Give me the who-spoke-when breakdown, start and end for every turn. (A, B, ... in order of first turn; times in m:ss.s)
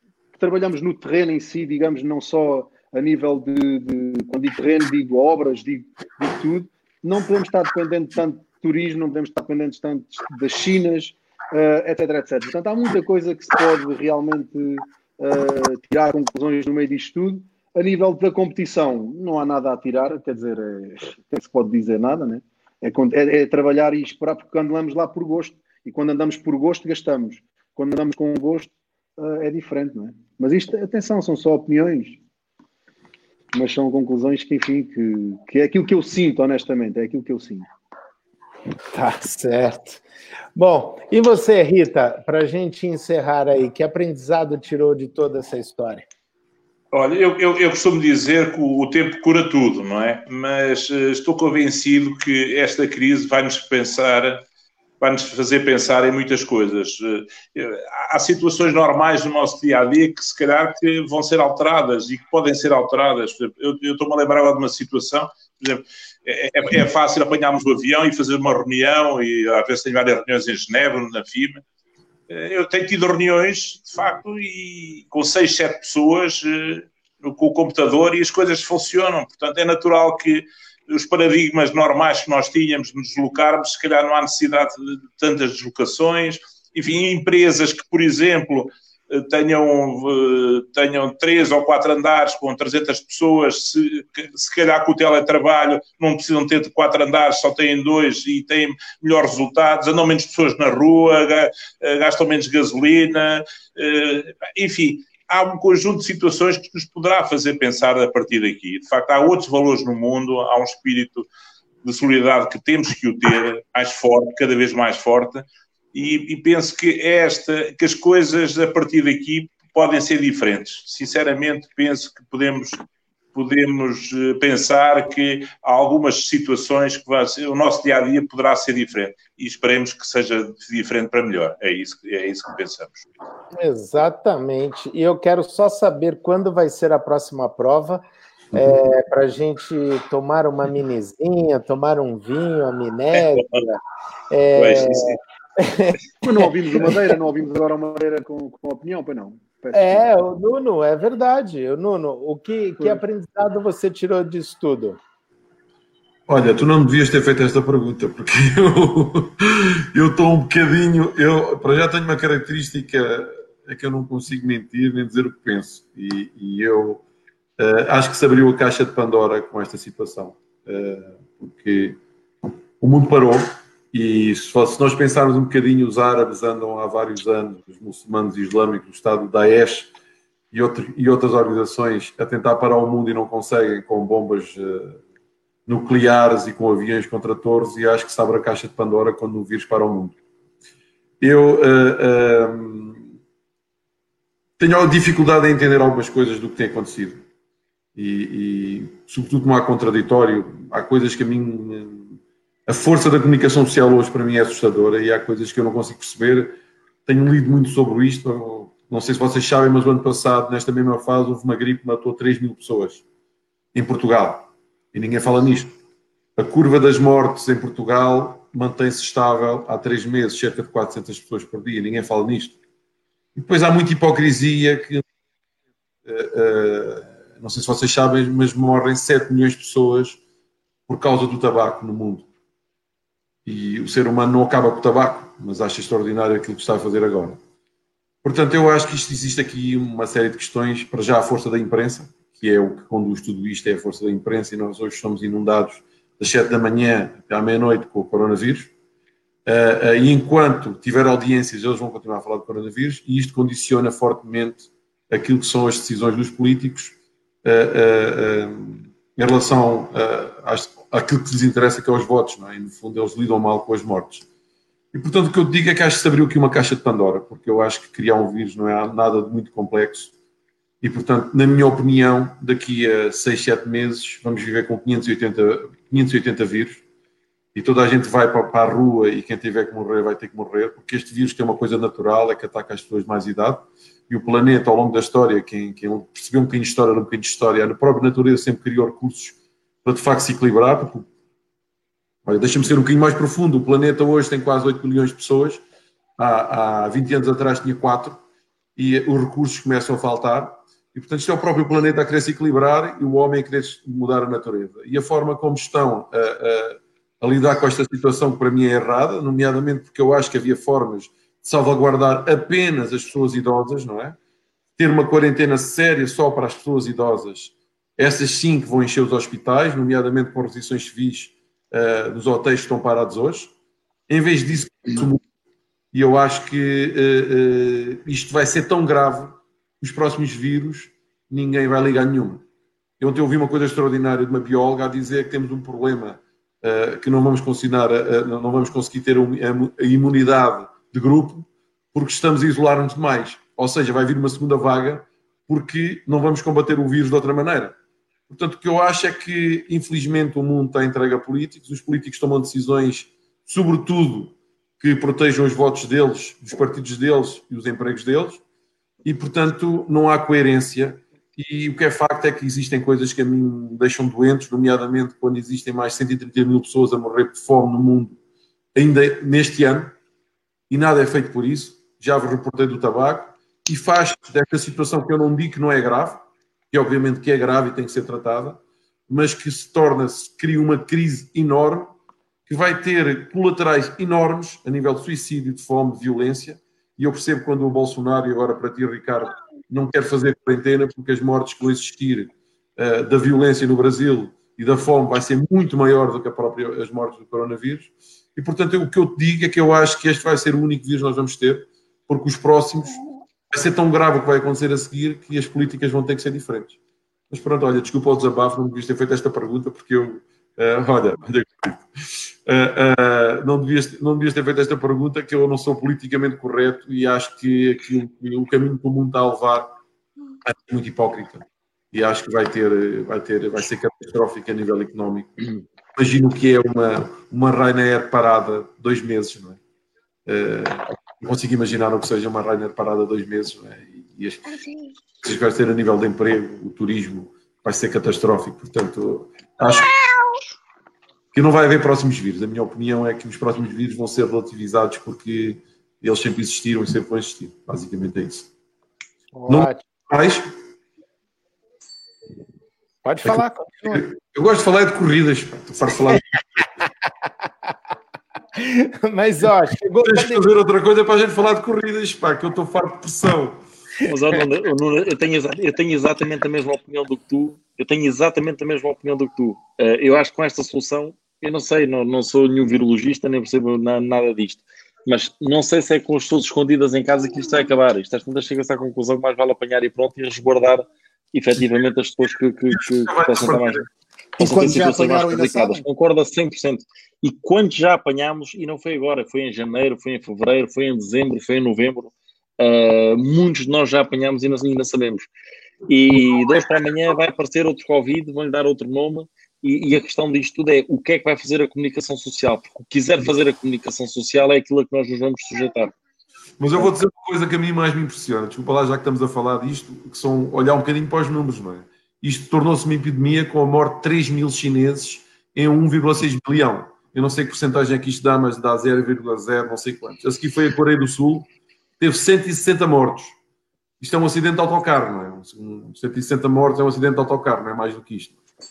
0:00.3-0:32.2 A
0:33.5-0:37.7 A
0:38.9-0:40.0 B
0:40.6-0:46.0 B
0:46.9-0:54.4 C
0:55.0-1:11.6 C
1:12.3-1:51.3 C
1:51.8-2:02.8 C
2:03.3-2:13.0 C
2:13.5-2:26.0 B
2:23.3-2:23.6 C
2:24.6-2:25.1 C
2:26.2-2:30.1 A
2:29.7-2:35.0 B
2:36.3-2:47.0 D
2:47.6-2:52.0 D
2:52.8-2:59.9 D
3:00.5-3:05.0 D
3:05.7-3:10.2 D
3:11.2-3:13.1 D
3:14.6-3:17.2 D
3:18.0-3:33.0 D
3:33.7-3:35.8 D
3:36.4-3:42.6 D
3:43.3-3:45.0 D
3:46.0-3:50.2 D
3:50.9-3:52.3 D
3:53.4-3:57.4 D
3:58.2-4:08.7 D
4:09.4-4:24.2 D
4:24.9-4:30.1 D
4:30.8-4:36.8 D
4:37.5-4:51.1 D
4:52.2-4:55.6 D
4:56.2-4:58.2 D
4:58.8-5:14.2 D
5:14.8-5:23.5 D
5:24.1-5:25.2 D
5:25.9-5:32.4 D
5:33.0-5:47.8 D
5:48.3-5:58.4 D
5:59.0-6:08.2 D
6:08.7-6:10.0 D
6:10.7-6:21.9 D
6:22.5-6:43.0 D
6:43.5-6:46.8 D
6:47.3-6:59.7 D
7:00.4-7:05.4 D
7:05.9-7:09.6 D
7:10.2-7:14.6 D
7:15.2-7:20.1 D
7:21.3-7:28.5 D
7:29.3-7:29.8 B
7:29.5-7:30.5 D
7:33.0-7:34.0 B
7:33.2-7:36.3 D
7:38.6-7:40.4 B
7:40.0-7:43.6 D
7:44.0-8:15.3 E
8:02.7-8:03.8 D
8:04.4-8:05.8 A
8:15.9-8:25.9 E
8:26.6-8:43.4 D
8:44.0-8:48.4 D